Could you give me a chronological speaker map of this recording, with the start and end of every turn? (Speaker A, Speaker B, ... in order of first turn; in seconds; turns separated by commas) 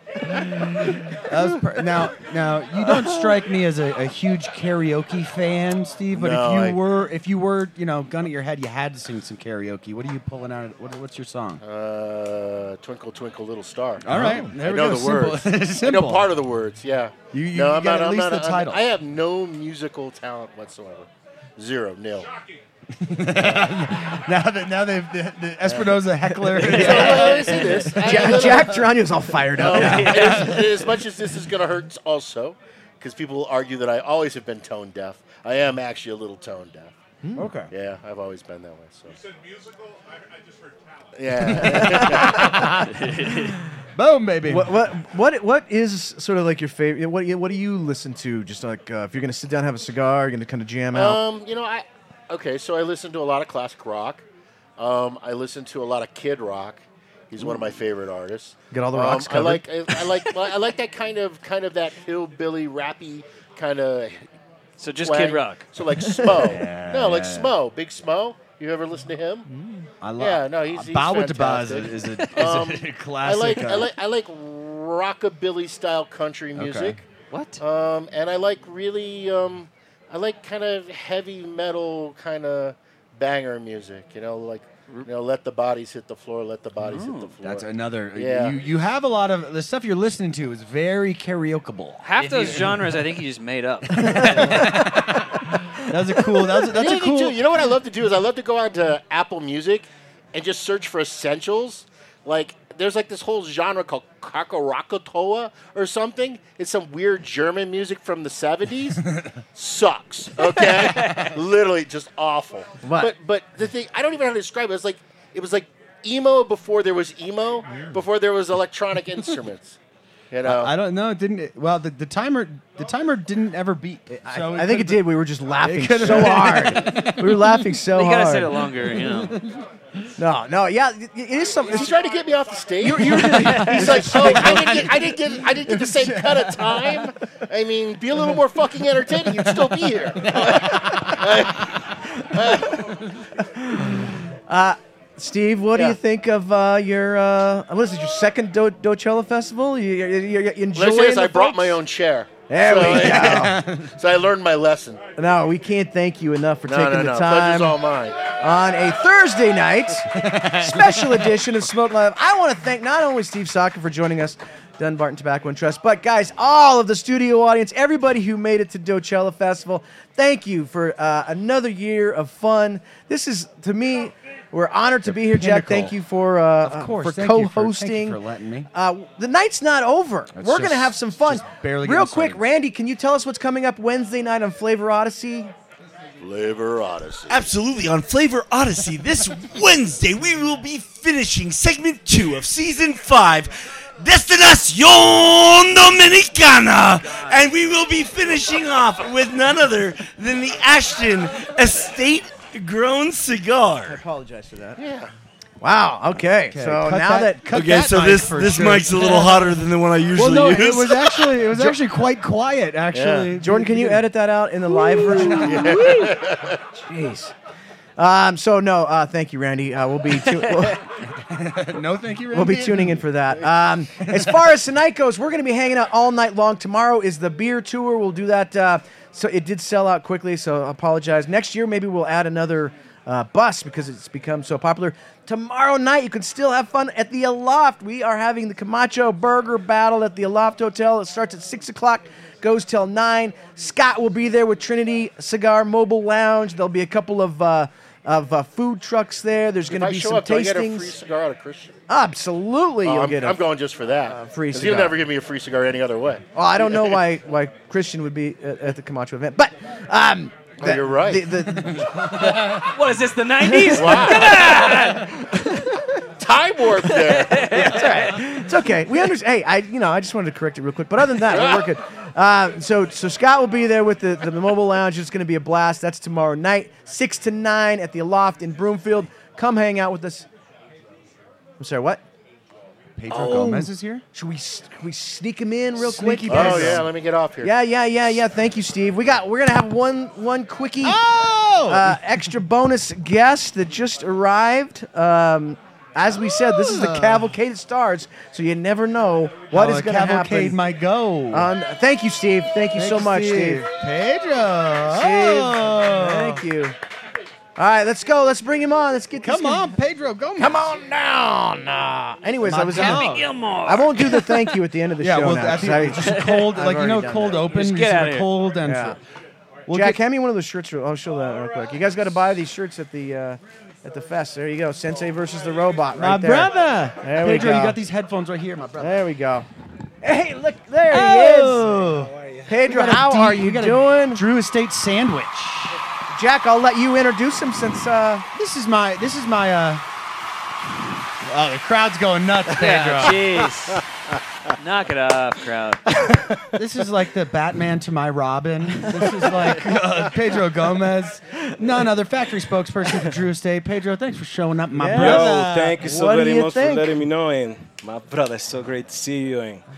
Speaker A: 0.3-11.6, Speaker B: 6.1-6.8, Speaker B: 11.6-22.3, Speaker A: 14.0-16.4, Speaker C: 14.1-14.5, Speaker A: 17.3-18.9, Speaker A: 23.0-28.5, Speaker C: 26.3-30.4, Speaker B: 26.6-28.9, Speaker B: 29.6-37.0, Speaker A: 29.6-31.0, Speaker C: 37.2-37.5, Speaker A: 37.4-37.7, Speaker B: 37.7-39.2, Speaker B: 41.1-42.5, Speaker C: 41.5-43.1, Speaker A: 41.5-42.7, Speaker D: 42.9-43.6, Speaker A: 44.0-44.8, Speaker C: 44.5-51.2, Speaker B: 50.9-54.2, Speaker B: 54.8-64.2, Speaker C: 58.7-59.6, Speaker D: 64.8-65.7, Speaker B: 65.0-69.5, Speaker C: 66.1-66.4, Speaker A: 66.3-67.5, Speaker C: 69.5-69.9, Speaker A: 70.0-74.0, Speaker B: 70.2-77.0, Speaker A: 76.5-77.0, Speaker D: 77.3-77.6, Speaker B: 77.6-88.6, Speaker D: 86.8-87.3, Speaker A: 87.4-92.8, Speaker D: 92.0-94.7, Speaker B: 92.2-92.6, Speaker A: 93.9-97.4, Speaker B: 96.7-109.0, Speaker B: 109.5-119.8, Speaker C: 112.8-113.1, Speaker B: 120.3-120.7, Speaker A: 120.4-127.6, Speaker C: 124.3-128.5, Speaker D: 127.9-129.4, Speaker A: 129.3-129.6, Speaker C: 130.2-131.9, Speaker B: 131.7-141.8, Speaker C: 132.8-135.1, Speaker A: 133.0-136.4, Speaker A: 139.4-141.3, Speaker B: 142.4-142.7, Speaker C: 143.6-151.8, Speaker B: 150.8-155.0, Speaker C: 152.5-153.6, Speaker A: 152.9-153.9, Speaker C: 155.2-157.8, Speaker B: 156.7-158.3, Speaker C: 158.4-178.2, Speaker A: 160.1-161.3, Speaker A: 175.0-175.9, Speaker A: 176.6-178.7, Speaker C: 178.7-185.5, Speaker A: 180.3-182.5, Speaker B: 186.2-187.5, Speaker E: 187.3-204.0, Speaker C: 203.8-204.8, Speaker B: 204.8-205.1, Speaker C: 205.6-207.6, Speaker A: 206.5-209.6, Speaker E: 207.5-211.4, Speaker A: 210.1-214.1, Speaker B: 212.9-213.3, Speaker C: 213.4-216.2, Speaker A: 214.8-215.9, Speaker B: 215.4-216.6, Speaker C: 216.8-217.3, Speaker C: 218.0-220.8, Speaker A: 221.2-223.1, Speaker C: 222.3-250.9, Speaker A: 224.1-224.5, Speaker B: 249.7-251.7, Speaker C: 251.9-253.4, Speaker B: 252.8-257.0, Speaker C: 254.1-255.0, Speaker C: 256.4-262.5, Speaker B: 260.6-261.3, Speaker A: 261.6-262.2, Speaker D: 262.5-265.1, Speaker C: 263.4-265.4, Speaker B: 263.7-264.5, Speaker B: 266.2-267.5, Speaker D: 266.8-268.3, Speaker C: 267.5-280.3, Speaker B: 271.3-271.6, Speaker C: 281.6-282.0, Speaker A: 283.0-284.0, Speaker C: 283.1-286.9, Speaker A: 285.8-286.9, Speaker B: 286.3-287.5, Speaker C: 287.4-291.0, Speaker A: 290.8-292.2, Speaker C: 291.7-300.6, Speaker A: 296.2-297.3, Speaker A: 299.5-301.5, Speaker C: 301.3-303.7, Speaker A: 302.7-306.4, Speaker C: 304.9-306.8, Speaker C: 307.6-309.7, Speaker A: 309.2-310.7, Speaker C: 310.4-313.1, Speaker A: 312.4-313.3, Speaker D: 312.7-314.5, Speaker C: 313.6-317.4, Speaker A: 315.0-319.0, Speaker D: 316.0-316.4, Speaker D: 317.5-318.3, Speaker C: 318.6-319.0, Speaker A: 319.7-320.0, Speaker C: 319.7-327.8, Speaker A: 325.9-329.0, Speaker C: 328.8-329.5, Speaker C: 330.0-331.7, Speaker A: 330.9-335.8, Speaker C: 332.5-334.2, Speaker C: 336.1-338.3, Speaker A: 338.4-339.8, Speaker A: 341.2-343.3, Speaker D: 342.5-343.8, Speaker D: 344.6-345.8, Speaker A: 346.5-355.8, Speaker C: 354.8-357.0, Speaker F: 354.9-359.6